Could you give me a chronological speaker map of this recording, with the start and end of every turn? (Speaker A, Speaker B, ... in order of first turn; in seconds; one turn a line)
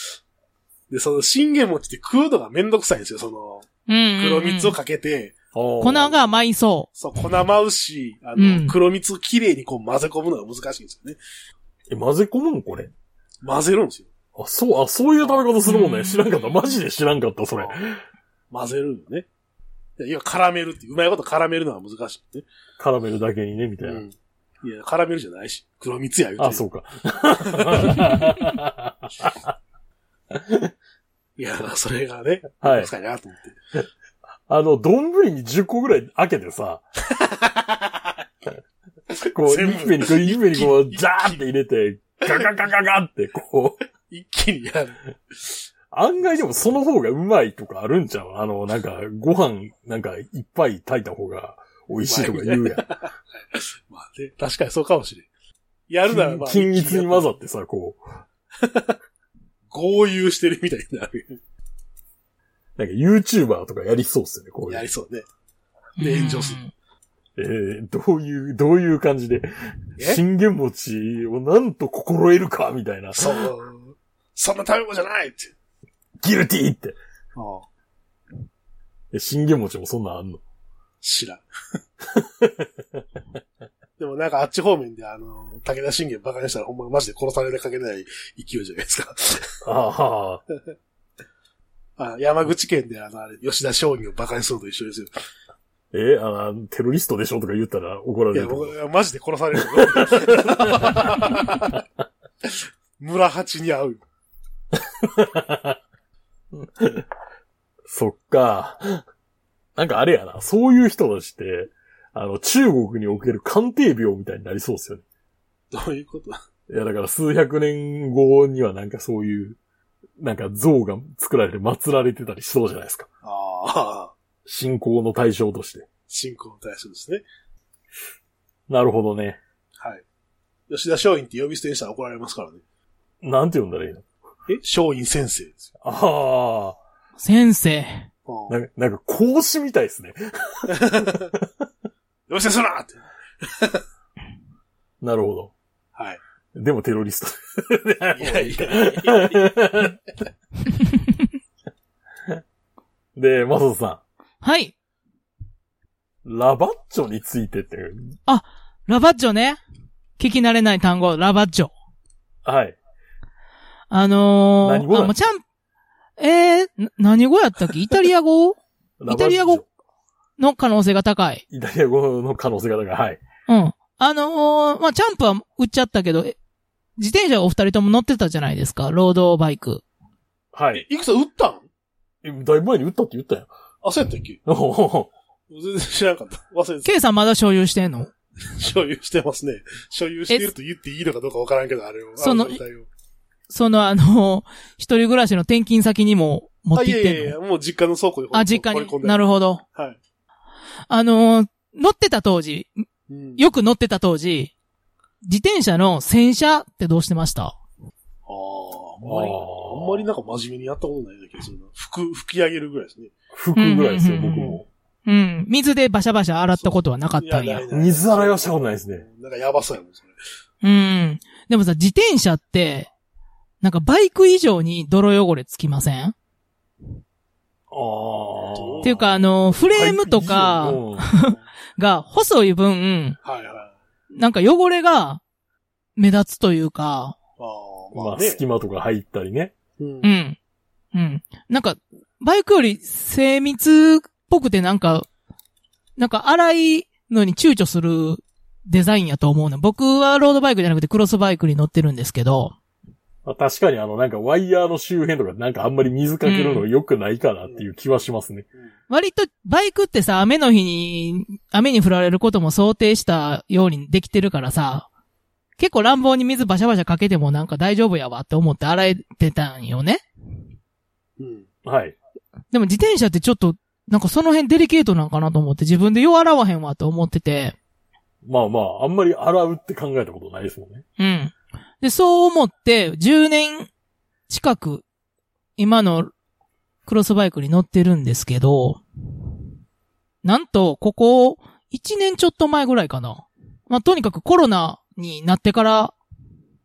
Speaker A: 0.9-3.7
Speaker B: 3.9-4.8
Speaker A: 4.2-5.4
Speaker C: 5.5-6.2
Speaker B: 5.8-6.9
Speaker A: 6.9-11.2
Speaker B: 8.4-8.8
Speaker C: 11.9-12.9
Speaker A: 13.4-14.1
Speaker C: 14.3-18.0
Speaker A: 15.2-15.5
Speaker B: 15.6-16.2
Speaker A: 18.5-19.2
Speaker A: 20.0-22.4
Speaker C: 22.8-24.0
Speaker A: 23.8-26.6
Speaker C: 26.4-29.5
Speaker A: 27.4-28.1
Speaker C: 30.3-30.7
Speaker A: 31.4-33.5
Speaker C: 32.6-32.9
Speaker C: 34.5-36.8
Speaker A: 37.1-38.1
Speaker A: 39.1-41.4
Speaker C: 39.3-43.8
Speaker A: 44.1-45.0
Speaker C: 45.9-52.9
Speaker A: 52.1-55.3
Speaker A: 55.9-57.3
Speaker C: 56.1-58.0
Speaker A: 58.6-59.0
Speaker A: 59.7-61.4
Speaker C: 62.8-64.8
Speaker A: 64.7-65.2
Speaker B: 66.0-66.7
Speaker A: 66.0-66.6
Speaker C: 67.4-73.5
Speaker A: 73.1-75.5
Speaker C: 76.2-77.0
Speaker A: 77.4-77.6
Speaker C: 79.1-80.4
Speaker A: 81.0-81.4
Speaker C: 82.1-83.0
Speaker A: 84.0-89.5
Speaker C: 89.6-90.4
Speaker A: 92.0-95.1
Speaker C: 95.9-98.7
Speaker A: 98.3-101.8
Speaker C: 99.6-101.8
Speaker A: 102.4-104.0
Speaker C: 105.0-105.8
Speaker C: 106.5-107.1
Speaker C: 107.9-109.0
Speaker C: 109.8-115.0
Speaker A: 115.7-116.4
Speaker C: 116.7-119.6
Speaker C: 120.2-123.1
Speaker A: 123.2-124.1
Speaker C: 124.5-125.9
Speaker A: 126.1-127.2
Speaker C: 128.7-129.4
Speaker A: 130.7-132.6
Speaker C: 133.2-134.0
Speaker A: 134.5-135.7
Speaker C: 135.8-136.8
Speaker B: 137.2-138.1
Speaker A: 138.3-138.6
Speaker C: 138.5-141.6
Speaker A: 140.7-141.3
Speaker A: 142.3-143.8
Speaker C: 145.0-145.5
Speaker C: 146.5-150.0
Speaker A: 148.1-149.6
Speaker C: 153.2-154.0
Speaker B: 154.4-154.7
Speaker C: 156.2-158.1
Speaker B: 158.3-159.6
Speaker B: 160.2-161.7
Speaker C: 162.4-162.8
Speaker B: 163.9-165.4
Speaker C: 164.6-165.2
Speaker B: 166.2-169.6
Speaker C: 169.0-169.6
Speaker B: 170.4-171.4
Speaker C: 171.5-173.2
Speaker B: 173.5-176.4
Speaker B: 177.0-179.8
Speaker C: 180.5-180.8
Speaker A: 180.7-181.7
Speaker C: 182.2-183.5
Speaker A: 183.8-184.4
Speaker C: 184.4-185.1
Speaker A: 185.5-186.9
Speaker B: 186.8-188.1
Speaker A: 188.5-192.9
Speaker B: 192.2-192.6
Speaker B: 193.5-197.3
Speaker A: 196.8-200.0
Speaker B: 198.3-199.6
Speaker B: 200.9-202.9
Speaker A: 203.1-203.4
Speaker B: 203.4-204.5
Speaker B: 205.2-207.6
Speaker A: 208.2-213.1
Speaker C: 209.0-210.1
Speaker C: 213.3-214.7
Speaker B: 213.5-217.6
Speaker A: 216.6-220.2
Speaker C: 217.7-219.0
Speaker B: 220.6-222.9
Speaker B: 223.6-226.1
Speaker C: 227.7-231.1
Speaker A: 228.5-229.0
Speaker B: 228.8-233.2
Speaker A: 233.2-233.7
Speaker B: 234.1-235.2
Speaker B: 236.0-237.2
Speaker A: 237.4-238.4
Speaker C: 237.9-239.5
Speaker A: 239.8-240.1
Speaker B: 240.0-240.4
Speaker B: 240.9-245.1
Speaker B: 246.0-252.5
Speaker C: 253.2-258.4
Speaker B: 256.2-256.6
Speaker B: 258.9-264.9
Speaker B: 265.6-270.0
Speaker A: 271.2-271.4
Speaker C: 271.6-271.9
Speaker B: 272.5-277.5
Speaker C: 278.2-280.8
Speaker B: 281.0-283.7
Speaker B: 284.3-284.8
Speaker B: 285.6-286.1
Speaker B: 286.9-288.8
Speaker B: 290.2-295.9